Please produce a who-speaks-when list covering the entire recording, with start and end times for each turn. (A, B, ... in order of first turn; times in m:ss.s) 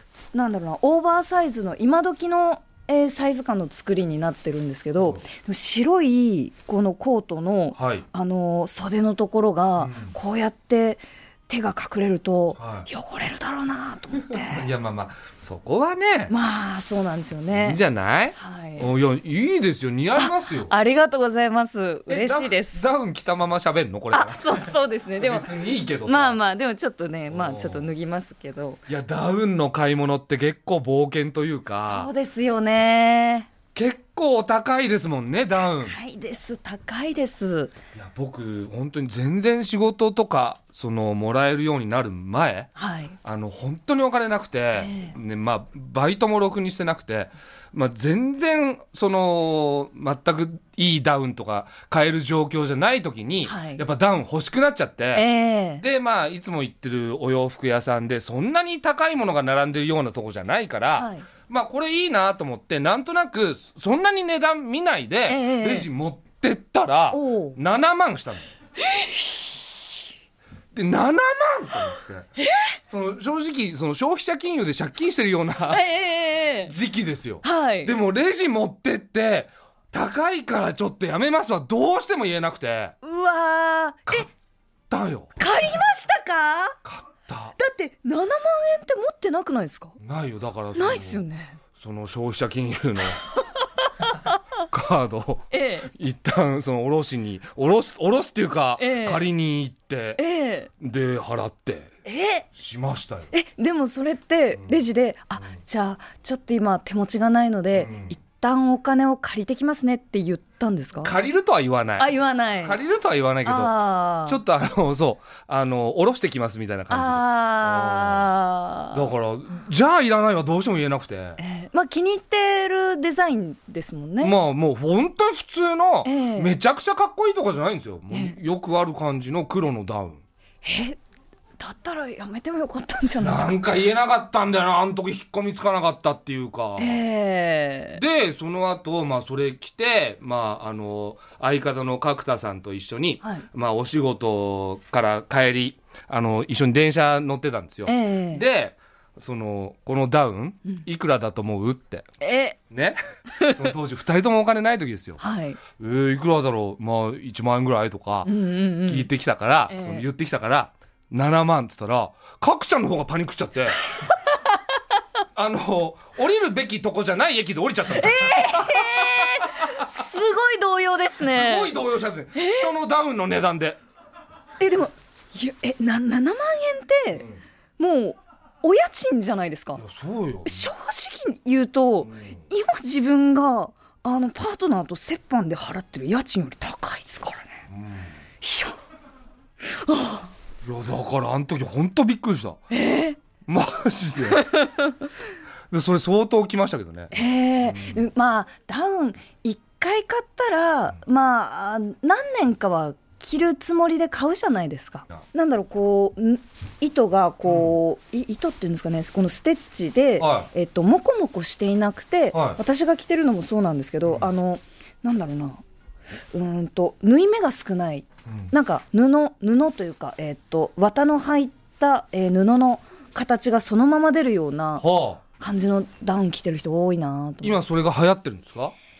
0:00.3-0:14.7 A
0:07.8-0:08.1 B
0:09.8-0:10.2 B
0:12.6-0:12.9 B
0:14.2-0:16.3 B
0:16.3-0:17.8 A
0:17.5-0:20.7 B
0:18.4-0:18.9 A
0:20.2-0:22.9 A
0:22.1-0:26.4 B
0:24.1-0:25.5 A
0:26.0-0:28.8 A
0:27.3-0:27.9 B
0:28.9-0:32.1 B
0:31.8-0:33.5 A
0:33.8-0:36.0 B
0:35.7-0:37.7 A
0:38.0-0:42.7 B
0:42.8-0:43.2 A
0:43.2-0:55.3 B
0:44.8-0:45.2 A
0:53.4-0:53.8 A
0:55.2-0:55.8 A
0:55.8-1:08.5 B
1:01.0-1:01.3 A
1:05.3-1:05.9 A
1:07.1-1:07.6 A
1:08.8-1:09.4 A
1:10.7-1:12.3 B
1:12.4-1:12.8 A
1:12.9-1:15.8 B
1:15.7-1:16.7 A
1:16.6-1:22.9 B
1:17.4-1:17.9 A
1:23.0-1:24.3 A
1:24.9-1:25.3 B
1:25.4-1:26.8 A
1:26.8-1:27.6 B
1:27.6-1:30.0 A
1:30.0-1:31.2 B
1:30.8-1:31.6 A
1:31.8-1:33.2 B
1:33.4-1:34.4 A
1:34.7-1:40.2 B
1:35.5-1:35.9 A
1:38.8-1:39.2 A
1:40.2-1:40.7 A
1:40.8-1:41.9 B
1:42.0-1:42.5 A
1:42.5-1:43.3 B
1:43.3-1:51.2 A
1:47.7-1:48.1 B
1:51.0-1:58.3 B
1:52.0-1:52.8 A
1:53.4-1:54.4 A
1:56.9-1:59.1 A
1:58.9-2:01.4 B
2:01.4-2:04.3 A
2:04.2-2:10.2 B
2:06.0-2:06.5 A
2:08.1-2:08.4 A
2:10.6-2:11.0 A
2:11.6-2:13.6 A
2:13.2-2:17.0 B
2:16.8-2:18.0 A
2:18.0-2:32.1 B
2:27.9-2:28.4 A
2:32.2-2:32.6 A
2:32.7-2:35.2 B
2:33.3-2:33.7 A
2:35.2-2:35.6 A
2:35.8-2:38.3 B
2:38.2-2:39.1 A
2:38.8-2:43.8 B
2:39.7-2:40.0 A
2:45.4-2:49.6 B
2:47.9-2:51.8 A
2:51.2-2:53.8 B
2:52.3-2:52.7 A
2:54.6-2:57.3 A
2:57.1-2:57.4 B
2:57.8-2:59.8 A
2:59.8-3:00.7 B
3:00.5-3:07.6 A
3:02.0-3:02.4 B
3:07.7-3:08.1 B
3:08.4-3:08.8 A
3:09.6-3:10.3 A
3:10.6-3:12.6 B
3:12.7-3:13.2 A
3:13.5-3:14.5 B
3:14.4-3:15.0 A
3:15.7-3:18.0 B
3:17.1-3:35.6 A
3:27.4-3:27.8 B
3:30.2-3:30.5 B
3:32.3-3:32.6 B
3:36.3-3:44.8 A
3:44.8-3:45.2 B
3:45.4-3:47.6 A
3:47.4-3:48.7 B